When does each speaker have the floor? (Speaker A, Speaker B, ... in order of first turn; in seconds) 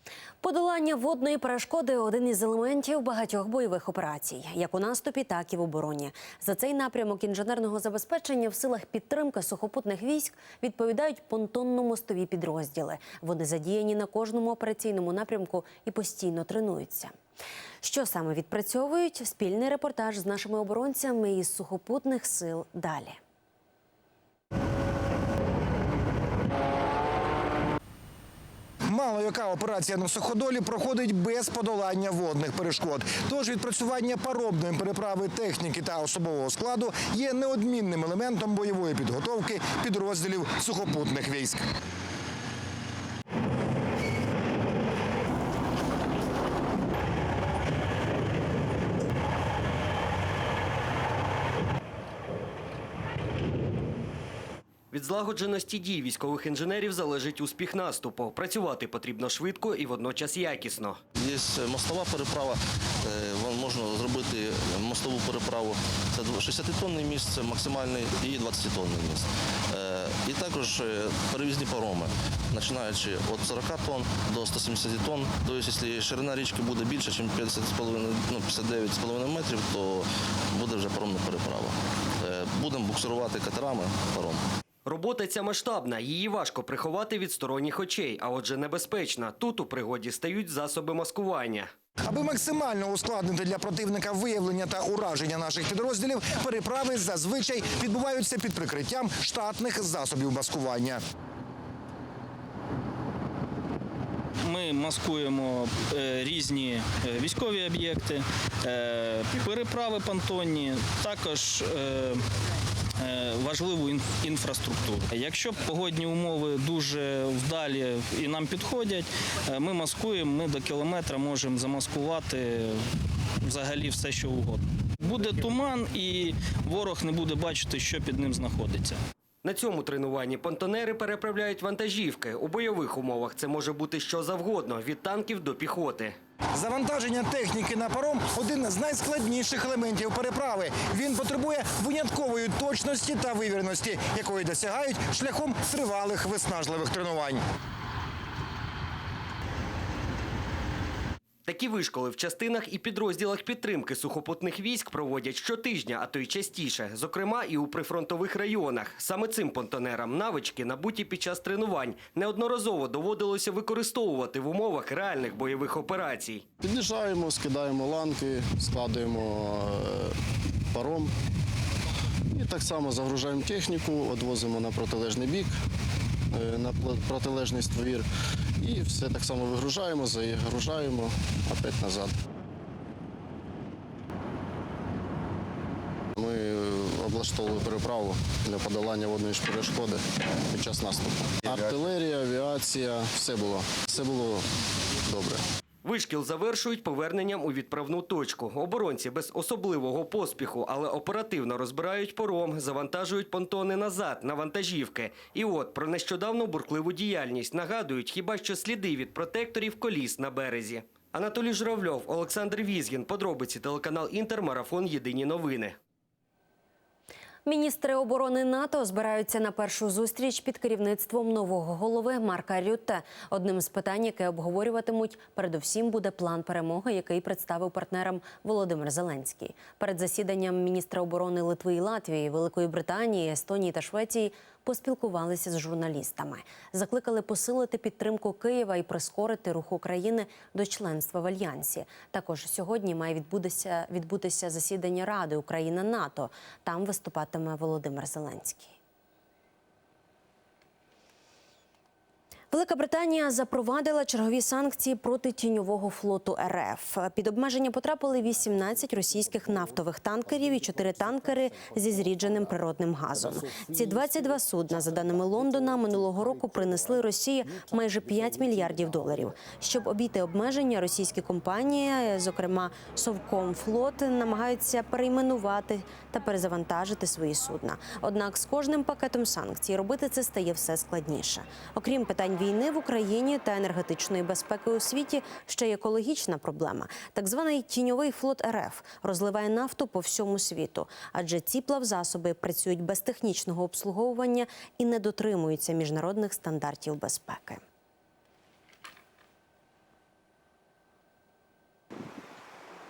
Speaker A: 0.4-17.1, 17.8-23.2, 217.5-248.8, 252.5-297.6
Speaker B: 28.9-41.6, 92.0-101.0, 136.6-147.4
Speaker C: 54.9-61.0, 84.9-91.7, 129.4-136.2, 151.5-166.4, 195.8-215.8
Speaker D: 61.1-84.5
Speaker E: 104.5-112.2, 113.0-122.8, 123.4-129.0
Speaker F: 166.6-170.2, 170.7-171.1, 172.3-175.6, 176.3-178.1, 178.6-182.2, 186.2-194.5, 195.0-195.4